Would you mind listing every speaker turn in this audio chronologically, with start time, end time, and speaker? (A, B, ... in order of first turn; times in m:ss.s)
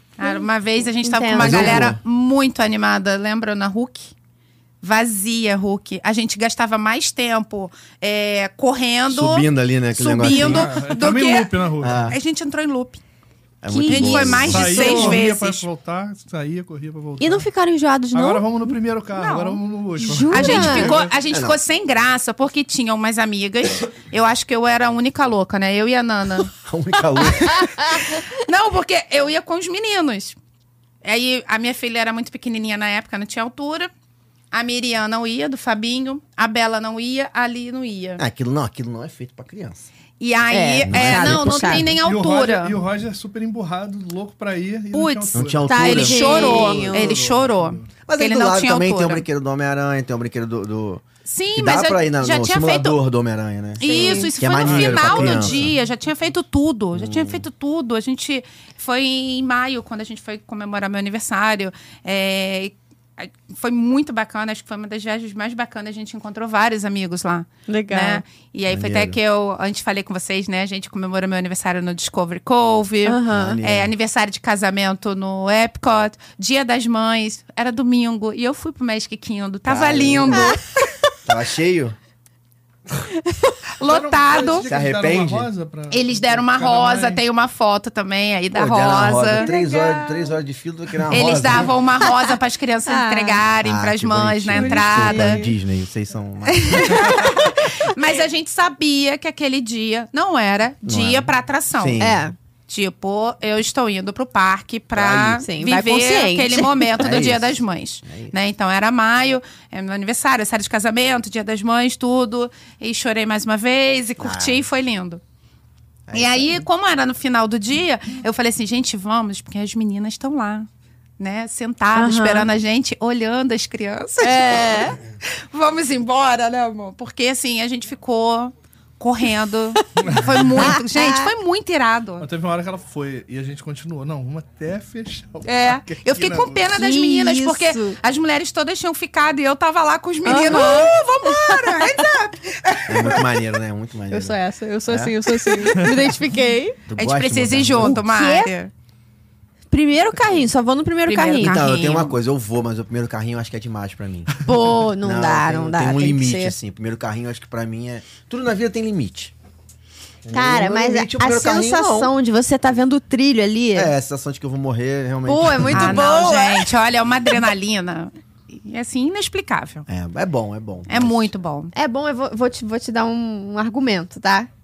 0:00.2-0:04.1 A
0:01.0-0:01.9 B
0:01.4-0:02.0 C
0:04.8-0:11.6 A
0:09.1-0:10.7 C
0:10.2-0:12.2 D
0:11.8-0:12.2 C
0:12.1-0:13.0 A
0:13.6-0:15.1 C
0:13.7-0:15.2 B
0:13.8-0:15.6 A
0:14.4-0:17.5 D
0:17.2-0:18.7 B
0:18.1-0:21.1 D
0:19.2-0:19.6 A
0:20.0-0:21.0 B
0:20.3-0:26.5 A
0:20.6-0:21.6 C
0:26.6-0:27.9 C
0:27.6-0:28.0 B
0:27.9-0:30.4 A
0:31.0-0:33.9 A
0:34.5-0:38.2 A
0:38.2-0:39.9 C
0:40.2-0:42.8 A
0:40.5-0:41.9 B
0:40.9-0:42.0 C
0:42.0-0:47.9 D
0:44.9-0:49.2 A
0:45.3-0:46.8 C
0:45.6-0:47.2 B
0:48.0-0:51.0 C
0:51.2-0:53.0 A
0:51.5-0:55.7 C
0:53.8-1:20.6 A
0:53.8-0:54.3 B
0:54.6-0:56.3 D
0:56.9-0:57.4 C
1:07.7-1:08.2 B
1:08.7-1:09.2 C
1:13.0-1:13.6 B
1:13.3-1:13.9 C
1:19.6-1:20.6 C
1:21.2-1:22.0 C
1:23.8-1:24.7 A
1:23.8-1:27.2 D
1:24.7-1:25.5 C
1:25.9-1:29.5 A
1:28.5-1:31.7 C
1:29.4-1:30.3 B
1:31.1-1:35.4 A
1:32.0-1:32.3 B
1:32.8-1:33.4 B
1:33.6-1:37.3 C
1:34.5-1:35.5 B
1:36.5-1:42.0 A
1:40.8-1:42.2 C
1:42.0-1:42.3 B
1:42.7-1:55.2 A
1:44.9-1:45.4 C
1:45.4-1:47.0 B
1:47.0-1:48.3 C
1:54.2-1:54.6 C
1:56.1-1:56.6 C
1:56.1-2:00.7 A
2:01.2-2:12.3 A
2:01.9-2:02.5 B
2:04.2-2:05.0 B
2:10.0-2:10.7 D
2:10.2-2:11.3 B
2:12.2-2:16.6 D
2:15.4-2:23.2 A
2:16.7-2:18.0 B
2:20.2-2:22.0 B
2:22.9-2:24.4 C
2:24.1-2:26.8 B
2:24.9-2:25.2 C
2:25.8-2:26.1 D
2:26.9-2:28.0 C
2:27.0-2:28.7 A
2:27.8-2:28.5 B
2:29.7-2:31.6 B
2:31.1-2:32.2 A
2:31.4-2:34.4 C
2:34.4-2:36.6 B
2:35.0-2:39.3 C
2:40.2-2:42.1 C
2:40.3-2:43.9 B
2:43.7-2:46.1 C
2:45.2-2:46.7 B
2:45.7-2:49.8 A
2:49.9-2:51.3 C
2:50.9-2:51.7 A
2:51.7-2:54.5 B